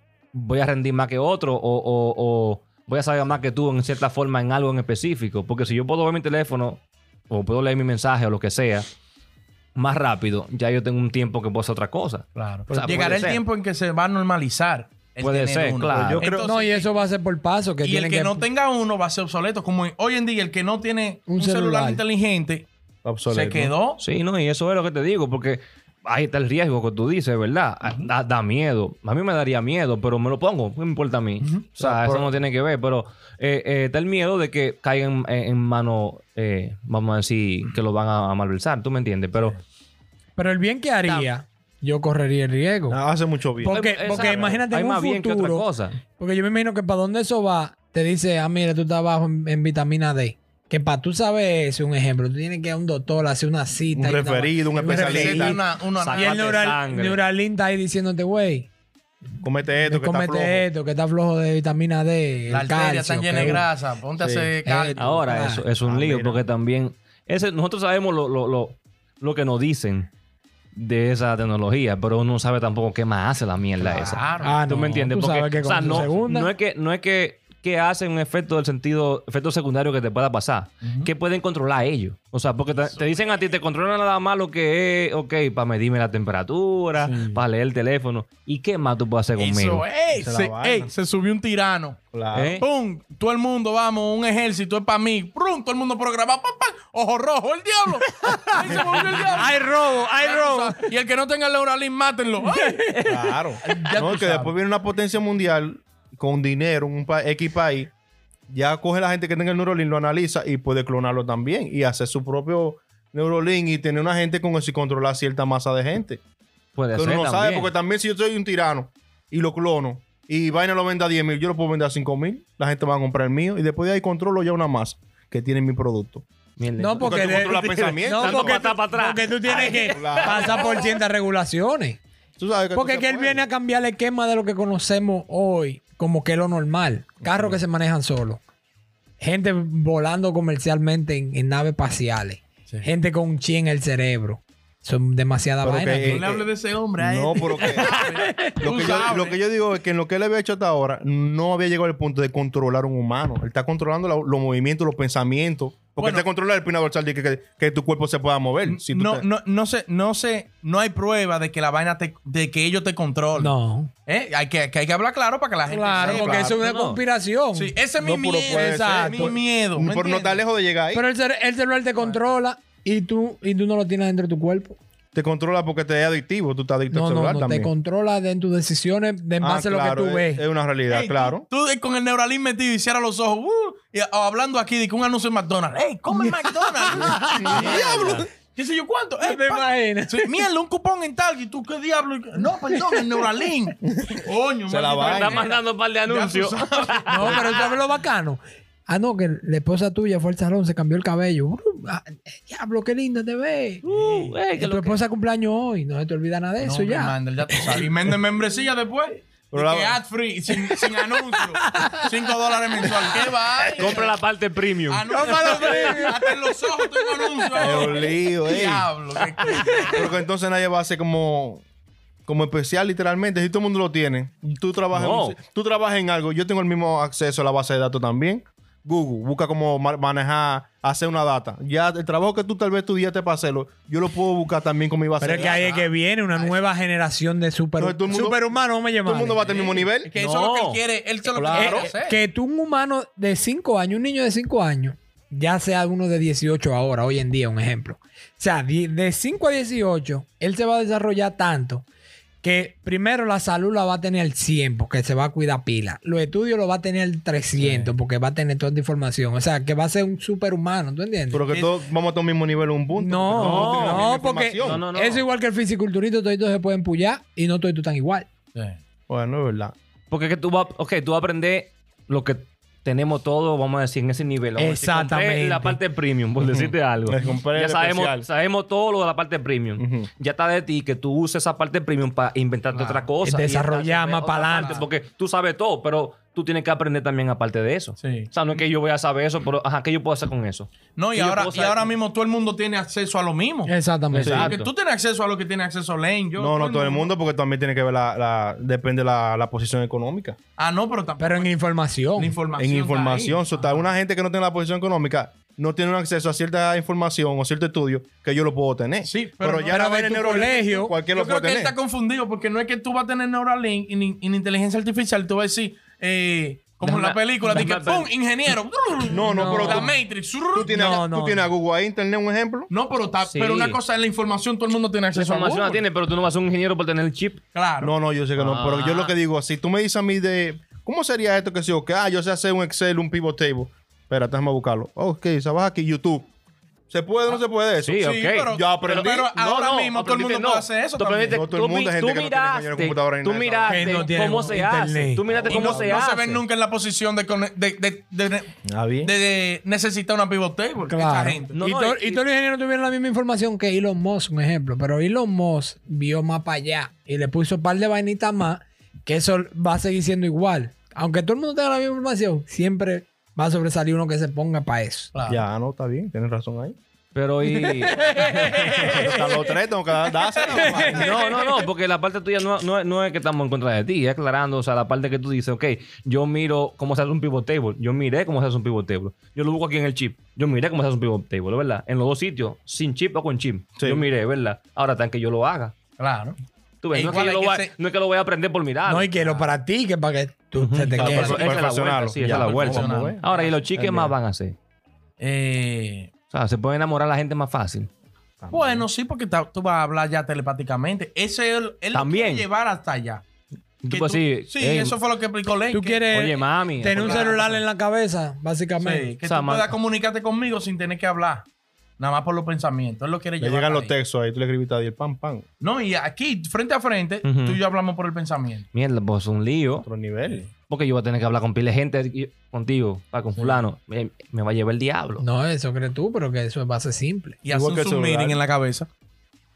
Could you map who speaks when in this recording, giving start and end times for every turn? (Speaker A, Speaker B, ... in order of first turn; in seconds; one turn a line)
Speaker A: 0.3-8.9
Speaker A: 9.8-13.4
Speaker B: 12.4-16.9
Speaker A: 15.2-16.3
Speaker C: 16.1-16.5
Speaker D: 16.4-18.4
Speaker B: 17.8-22.7
Speaker D: 21.3-22.0
Speaker C: 23.0-23.7
Speaker B: 23.3-24.0
Speaker A: 24.0-39.6
Speaker B: 31.4-31.7
Speaker C: 31.8-32.4
Speaker D: 40.4-43.0
Speaker A: 41.0-41.3
Speaker C: 42.9-44.6
Speaker A: 43.6-46.0
Speaker D: 43.6-58.7
Speaker C: 53.9-55.6
Speaker B: 54.9-56.6
Speaker A: 56.0-57.2
Speaker C: 59.4-60.7
Speaker D: 59.8-63.7
Speaker B: 62.5-65.2
Speaker C: 64.2-64.5
Speaker D: 64.7-65.7
Speaker A: 65.0-70.1
Speaker C: 65.8-66.5
Speaker A: 70.8-89.8
Speaker B: 73.8-74.6
Speaker D: 74.4-76.5
Speaker B: 80.8-81.1
Speaker B: 82.7-83.2
Speaker B: 87.0-87.4
Speaker B: 89.4-102.9
Speaker C: 90.2-90.9
Speaker C: 92.1-92.5
Speaker A: 92.3-92.7
Speaker D: 98.2-100.9
Speaker D: 102.4-103.1
Speaker C: 103.0-107.9
Speaker B: 103.6-104.5
Speaker C: 108.5-116.2
Speaker A: 116.8-117.7
Speaker C: 117.0-126.2
Speaker A: 126.6-130.9
Speaker D: 126.8-132.0
Speaker C: 127.0-128.6
Speaker C: 129.5-131.0
Speaker C: 132.4-133.4
Speaker D: 132.7-138.4
Speaker C: 137.2-137.6
Speaker D: 139.2-146.2
Speaker C: 145.6-146.5
Speaker B: 146.1-149.4
Speaker C: 147.0-159.3
Speaker D: 147.9-148.6
Speaker B: 156.0-156.3
Speaker B: 158.7-163.6
Speaker D: 163.4-163.9
Speaker B: 164.1-166.6
Speaker D: 165.7-167.7
Speaker C: 165.9-166.6
Speaker A: 166.6-167.0
Speaker B: 167.5-170.4
Speaker C: 168.0-171.1
Speaker D: 168.4-169.3
Speaker D: 170.9-174.8
Speaker C: 175.1-177.7
Speaker D: 176.9-180.4
Speaker C: 179.4-181.4
Speaker B: 180.9-197.7
Speaker D: 186.1-187.8
Speaker C: 187.3-188.2
Speaker A: 187.6-188.2
Speaker D: 189.2-190.3
Speaker D: 192.7-193.0
Speaker C: 193.9-195.4
Speaker A: 195.0-197.6
Speaker D: 197.1-207.8
Speaker A: 203.8-205.0
Speaker B: 206.6-214.2
Speaker C: 209.5-210.0
Speaker D: 210.7-212.1
Speaker D: 212.8-214.0
Speaker A: 213.8-215.1
Speaker B: 214.9-220.1
Speaker D: 215.1-218.1
Speaker C: 215.3-216.1
Speaker C: 217.6-218.9
Speaker D: 219.4-220.0
Speaker C: 219.9-221.6
Speaker C: 222.3-235.6
Speaker A: 224.9-225.4
Speaker D: 235.2-239.4
Speaker B: 235.2-236.6
Speaker C: 237.8-238.4
Speaker C: 239.0-240.1
Speaker B: 239.4-242.2
Speaker A: 240.2-240.8
Speaker C: 241.3-241.9
Speaker D: 241.5-251.9
Speaker D: 252.4-261.5
Speaker C: 261.3-264.8
Speaker D: 262.9-268.3
Speaker A: 263.4-265.2
Speaker B: 268.6-268.8
Speaker C: 269.1-269.8
Speaker A: 270.1-291.9
Speaker D: 274.6-275.8
Speaker C: 276.4-278.3
Speaker C: 279.8-280.1
Speaker B: 282.7-283.1
Speaker D: 283.2-284.9
Speaker B: 284.5-284.9
Speaker B: 288.0-288.6
Speaker B: 291.0-293.7
Speaker D: 293.7-294.6
Speaker A: 294.1-294.7
Speaker B: 294.3-297.1
Speaker C: 296.4-300.4
Speaker B: 300.6-301.5
Speaker D: 301.2-302.4
Speaker B: 302.2-303.9
Speaker C: 302.6-311.7
Speaker B: 309.0-320.8
Speaker D: 309.7-310.9
Speaker A: 316.8-318.1
Speaker C: 319.1-319.9
Speaker D: 319.1-319.9
Speaker C: 320.6-322.7
Speaker D: 320.6-321.5
Speaker B: 322.7-325.8
Speaker A: 323.3-323.8
Speaker A: 325.1-327.4
Speaker B: 327.6-327.9
Speaker C: 327.8-336.3
Speaker A: 328.4-329.1
Speaker C: 336.9-338.0
Speaker A: 337.8-346.4
Speaker B: 338.0-341.4
Speaker C: 338.5-339.3
Speaker C: 341.3-344.0
Speaker D: 343.7-345.3
Speaker B: 343.8-344.5
Speaker C: 345.3-346.0
Speaker B: 345.5-351.6
Speaker C: 348.7-349.1
Speaker D: 350.9-365.1
Speaker A: 351.5-352.2
Speaker B: 365.1-365.4
Speaker C: 365.3-366.8
Speaker A: 367.1-369.1
Speaker D: 367.5-369.6
Speaker C: 368.6-371.2
Speaker D: 370.4-371.5
Speaker B: 370.6-370.9
Speaker A: 370.9-385.8
Speaker C: 383.8-384.1
Speaker B: 386.0-386.4
Speaker A: 386.8-389.4
Speaker B: 386.9-387.7
Speaker D: 388.9-391.4
Speaker A: 390.6-394.6
Speaker C: 391.0-393.2
Speaker B: 391.0-393.6
Speaker C: 393.8-394.1
Speaker B: 395.2-396.1
Speaker A: 396.3-397.9
Speaker C: 398.4-398.9
Speaker B: 398.5-403.2
Speaker A: 401.9-402.5
Speaker A: 403.8-405.0
Speaker B: 403.9-406.1
Speaker D: 405.7-409.1
Speaker A: 406.1-407.4
Speaker B: 406.9-407.6
Speaker B: 408.8-411.5
Speaker A: 409.2-409.8
Speaker B: 412.0-413.9
Speaker C: 413.4-415.5
Speaker B: 415.6-418.7
Speaker A: 417.2-417.6
Speaker A: 418.7-419.9
Speaker C: 419.9-420.5
Speaker A: 420.7-425.2
Speaker D: 425.2-427.4
Speaker B: 427.4-428.9
Speaker C: 427.5-428.4